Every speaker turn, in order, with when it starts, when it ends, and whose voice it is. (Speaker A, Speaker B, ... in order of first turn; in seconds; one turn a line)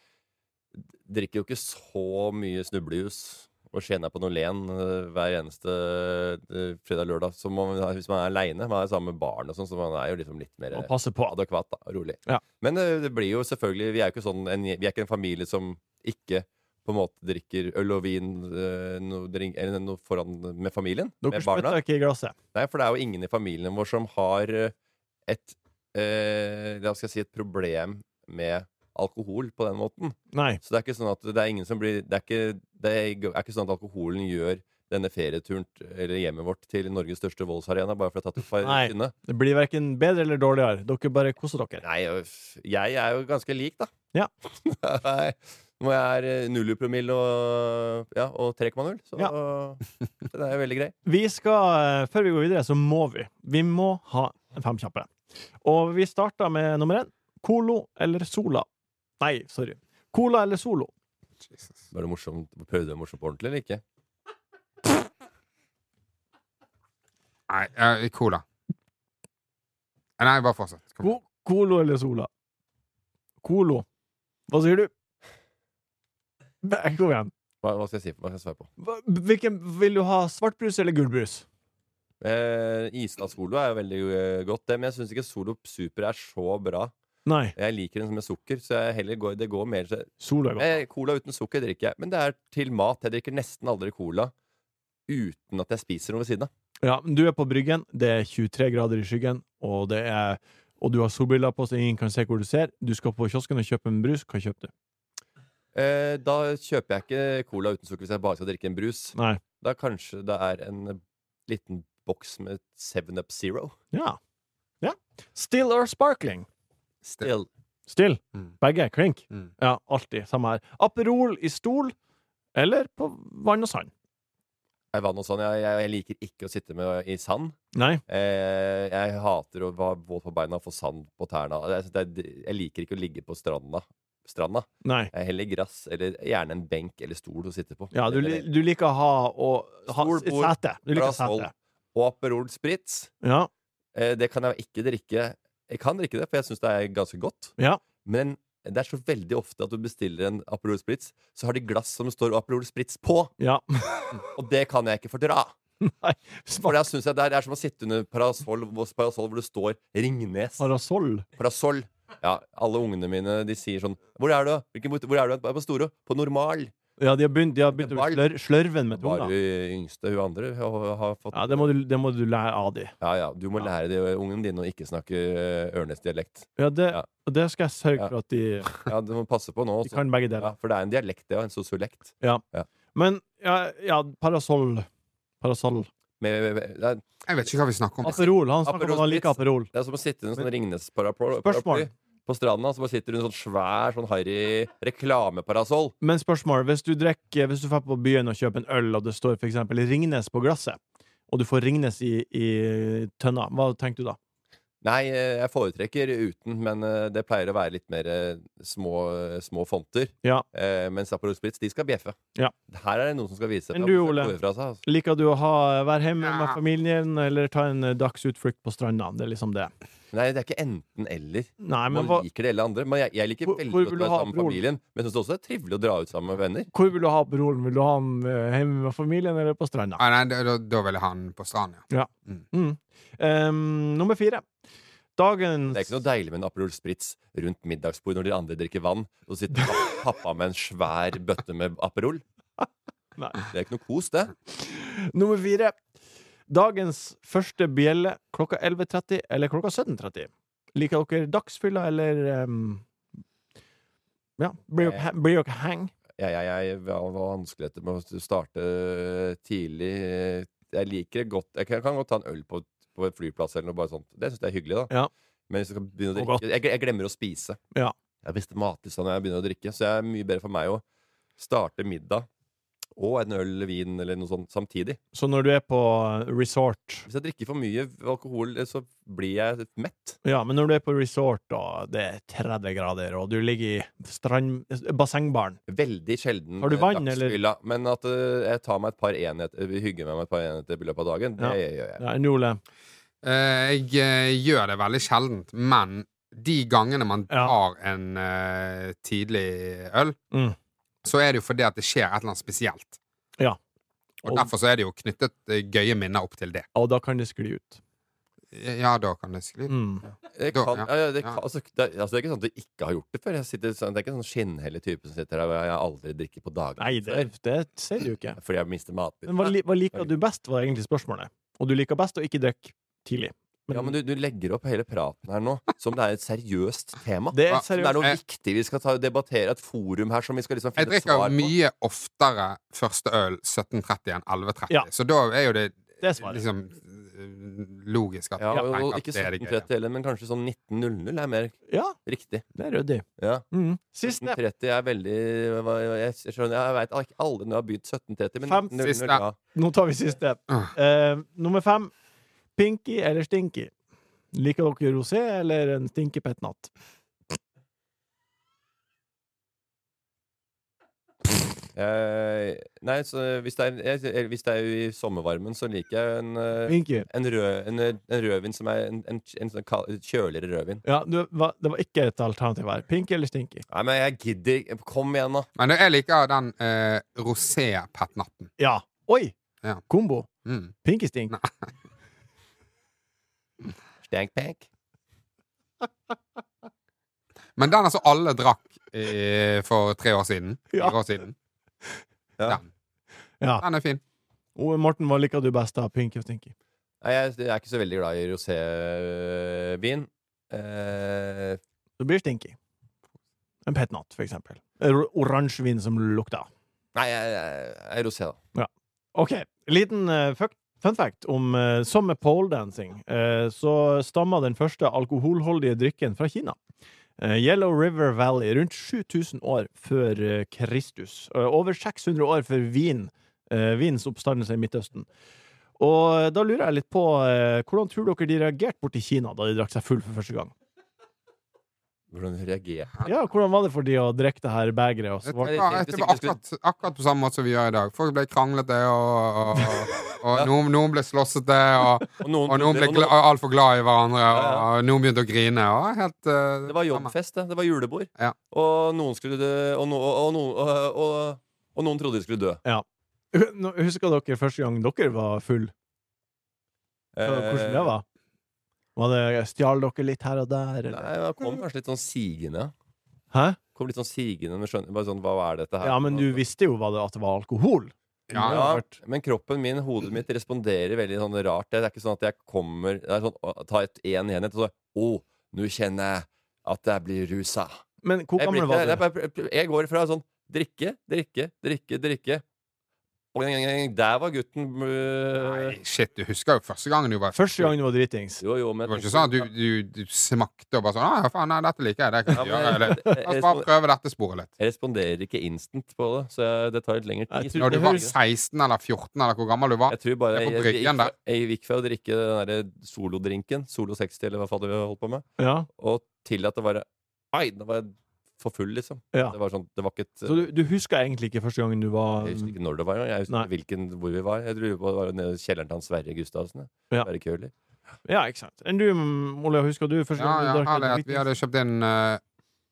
Speaker A: 0.8-21.8
Speaker B: 10.7-11.3
Speaker B: 21.2-22.4
Speaker A: 22.5-24.7
Speaker A: 25.3-39.1
Speaker B: 30.3-30.6
Speaker B: 38.6-41.8
Speaker A: 41.8-43.9
Speaker A: 44.6-51.0
Speaker B: 51.0-55.1
Speaker B: 55.6-58.7
Speaker B: 59.2-60.9
Speaker C: 61.5-61.8
Speaker A: 61.9-63.8
Speaker C: 67.5-68.4
Speaker C: 70.2-71.1
Speaker B: 71.0-72.3
Speaker B: 73.4-73.9
Speaker B: 74.5-74.9
Speaker B: 76.6-77.3
Speaker A: 77.6-78.7
Speaker B: 78.8-81.5
Speaker A: 82.2-86.9
Speaker B: 87.3-87.5
Speaker A: 87.6-94.3
Speaker B: 90.2-90.8
Speaker A: 95.1-96.5
Speaker B: 96.8-104.7
Speaker A: 105.7-113.8
Speaker B: 113.9-114.2
Speaker B: 114.8-116.5
Speaker A: 117.0-117.5
Speaker B: 117.9-121.9
Speaker B: 122.5-123.9
Speaker A: 124.9-127.6
Speaker B: 127.7-128.0
Speaker A: 128.1-138.5
Speaker B: 134.8-135.1
Speaker B: 137.9-141.5
Speaker A: 139.9-143.1
Speaker B: 143.2-143.5
Speaker A: 143.9-153.3
Speaker B: 153.4-154.2
Speaker A: 154.3-155.6
Speaker B: 155.8-156.8
Speaker A: 156.6-160.7
Speaker B: 160.6-161.3
Speaker A: 161.4-166.7
Speaker B: 167.0-169.3
Speaker A: 167.8-168.2
Speaker A: 168.9-171.7
Speaker B: 171.3-172.9
Speaker A: 173.0-177.1
Speaker B: 176.6-178.7
Speaker A: 178.7-182.7
Speaker B: 179.9-180.5
Speaker B: 182.9-184.9
Speaker B: 185.4-185.9
Speaker A: 186.2-187.0
Speaker C: 187.3-188.2
Speaker B: 188.0-189.7
Speaker A: 188.1-195.9
Speaker B: 191.4-191.9
Speaker B: 196.0-204.2
Speaker A: 204.8-212.2
Speaker A: 212.7-214.8
Speaker B: 213.7-219.7
Speaker C: 216.2-216.6
Speaker A: 220.1-226.7
Speaker B: 221.6-222.2
Speaker B: 223.5-224.6
Speaker B: 226.7-230.0
Speaker C: 230.0-232.4
Speaker B: 231.9-234.4
Speaker B: 235.2-235.9
Speaker A: 235.7-242.2
Speaker B: 243.2-243.4
Speaker A: 243.5-244.3
Speaker B: 244.5-245.8
Speaker B: 246.5-252.8
Speaker B: 254.4-255.9
Speaker A: 254.8-255.1
Speaker A: 256.2-264.9
Speaker A: 265.5-267.6
Speaker B: 266.2-266.4
Speaker A: 268.2-270.8
Speaker A: 271.4-272.3
Speaker A: 273.0-275.0
Speaker B: 275.1-277.1
Speaker A: 277.1-280.2
Speaker B: 280.2-285.6
Speaker A: 285.7-292.0
Speaker B: 286.6-287.4
Speaker B: 291.4-292.6
Speaker C: 293.2-300.2
Speaker B: 297.3-297.6
Speaker C: 301.0-303.0
Speaker B: 304.2-304.5
Speaker C: 304.2-306.7
Speaker B: 306.8-307.8
Speaker C: 308.5-311.4
Speaker B: 309.7-310.1
Speaker A: 310.4-317.3
Speaker B: 316.8-318.4
Speaker A: 318.4-320.1
Speaker B: 319.3-323.9
Speaker A: 323.7-331.5
Speaker B: 327.3-328.1
Speaker C: 327.5-328.2
Speaker C: 330.8-339.7
Speaker B: 336.0-336.4
Speaker A: 338.4-342.4
Speaker B: 341.7-342.0
Speaker B: 342.6-344.4
Speaker A: 343.2-343.5
Speaker A: 344.0-349.4
Speaker B: 348.4-348.7
Speaker C: 348.8-349.2
Speaker B: 349.5-351.9
Speaker B: 352.6-353.7
Speaker B: 354.3-356.7
Speaker A: 361.8-370.8
Speaker B: 366.7-367.1
Speaker B: 370.9-373.6
Speaker A: 373.7-375.5
Speaker C: 375.6-378.5
Speaker B: 378.6-379.4
Speaker B: 379.9-380.3
Speaker C: 380.4-380.7
Speaker B: 380.8-381.4
Speaker C: 381.3-381.6
Speaker A: 384.1-384.7
Speaker C: 387.6-391.3
Speaker B: 390.7-391.0
Speaker C: 393.6-394.0
Speaker B: 394.6-396.5
Speaker A: 397.0-401.6
Speaker B: 402.0-402.6
Speaker B: 403.7-406.5
Speaker A: 406.9-408.4
Speaker B: 408.6-416.6
Speaker B: 417.2-425.1
Speaker B: 425.8-430.5
Speaker A: 432.1-433.1
Speaker B: 433.1-435.6
Speaker C: 435.2-447.1
Speaker A: 435.4-436.4
Speaker A: 442.2-443.1
Speaker A: 444.3-444.7
Speaker A: 446.7-452.6
Speaker B: 452.6-455.7
Speaker A: 457.1-457.9
Speaker B: 457.2-458.1
Speaker B: 459.0-461.1
Speaker A: 460.9-462.7
Speaker B: 463.3-463.6
Speaker A: 463.8-466.4
Speaker B: 465.8-468.9
Speaker C: 468.3-468.6
Speaker A: 468.4-477.8
Speaker B: 478.0-479.0
Speaker A: 478.4-482.4
Speaker A: 483.3-485.8
Speaker C: 485.4-487.7
Speaker B: 487.3-488.4
Speaker A: 488.4-489.5
Speaker C: 488.9-494.5
Speaker A: 492.3-493.7
Speaker A: 494.6-498.1
Speaker B: 497.3-498.1
Speaker C: 497.6-501.1
Speaker A: 499.9-510.4
Speaker B: 505.4-505.7
Speaker B: 510.3-512.5
Speaker A: 512.2-517.5
Speaker B: 518.1-521.2
Speaker C: 520.2-522.2